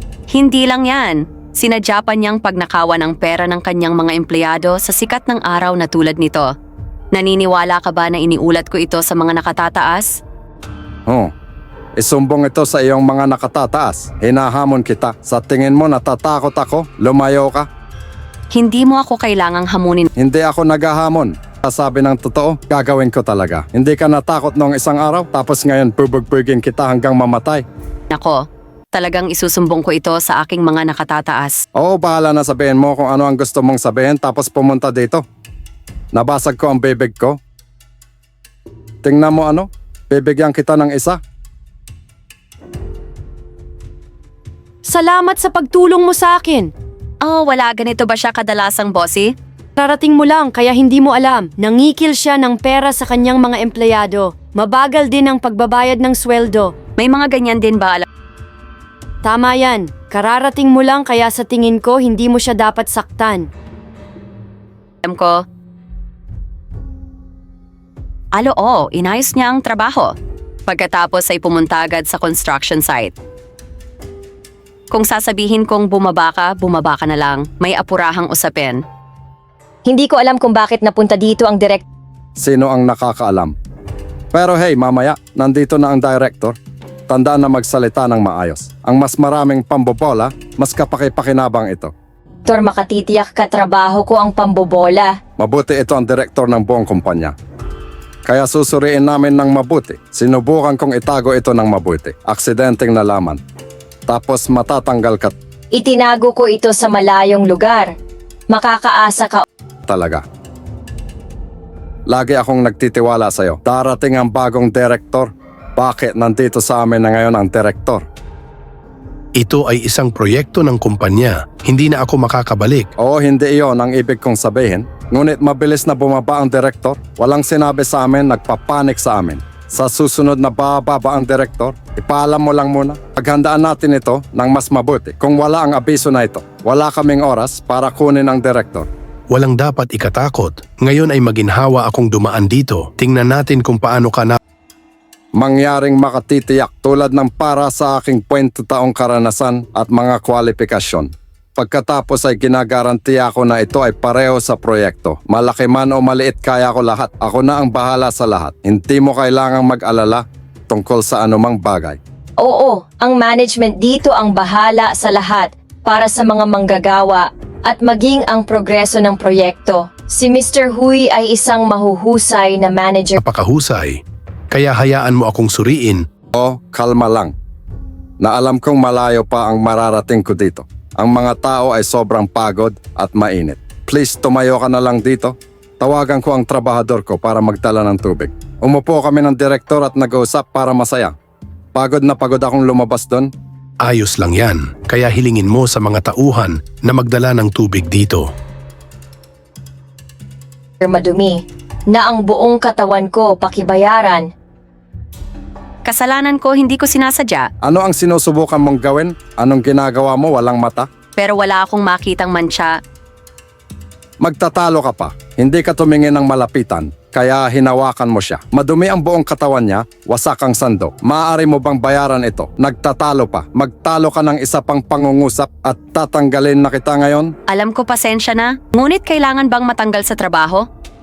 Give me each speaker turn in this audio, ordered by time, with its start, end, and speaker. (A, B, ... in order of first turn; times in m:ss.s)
0:00.3-0:06.5 A
0:07.1-0:10.1 A
0:12.0-0:17.7 B
0:18.5-0:20.1 A
0:20.2-0:27.6 B
0:28.1-0:28.4 A
0:28.9-0:31.6 A
0:31.8-0:35.2 B
0:36.1-0:37.4 B
0:39.0-0:41.2 B
0:44.8-0:46.7 C
0:47.2-0:49.3 A
0:49.8-0:56.7 C
0:57.0-0:58.1 A
0:59.2-1:03.5 C
1:05.0-1:05.4 A
1:08.3-1:10.1 A
1:10.7-1:13.1 A
1:14.9-1:18.8 A
1:19.9-1:21.8 D
1:22.4-1:23.5 B
1:24.3-1:26.6 B
1:27.1-1:31.9 B
1:32.5-1:35.2 D
1:35.4-1:37.3 B
1:38.2-1:43.4 B
1:44.1-1:45.4 B
1:45.7-1:47.9 D
1:48.5-1:49.4 D
1:49.9-1:50.2 B
1:52.1-1:58.0 B
1:59.4-2:02.9 E
2:03.0-2:18.9 B
2:19.3-2:24.4 E
2:25.4-2:42.0 B
2:42.4-2:53.2 D
2:53.2-2:54.0 E
2:54.5-2:56.0 E
2:56.4-2:57.3 B
2:58.2-3:11.2 B
3:11.8-3:13.3 B
3:13.8-3:18.3 E
3:20.8-3:24.3 D
3:25.8-3:27.5 A
3:27.6-3:30.9 B
3:31.2-3:32.8 A
3:34.2-3:47.3 B
3:47.5-3:50.6 A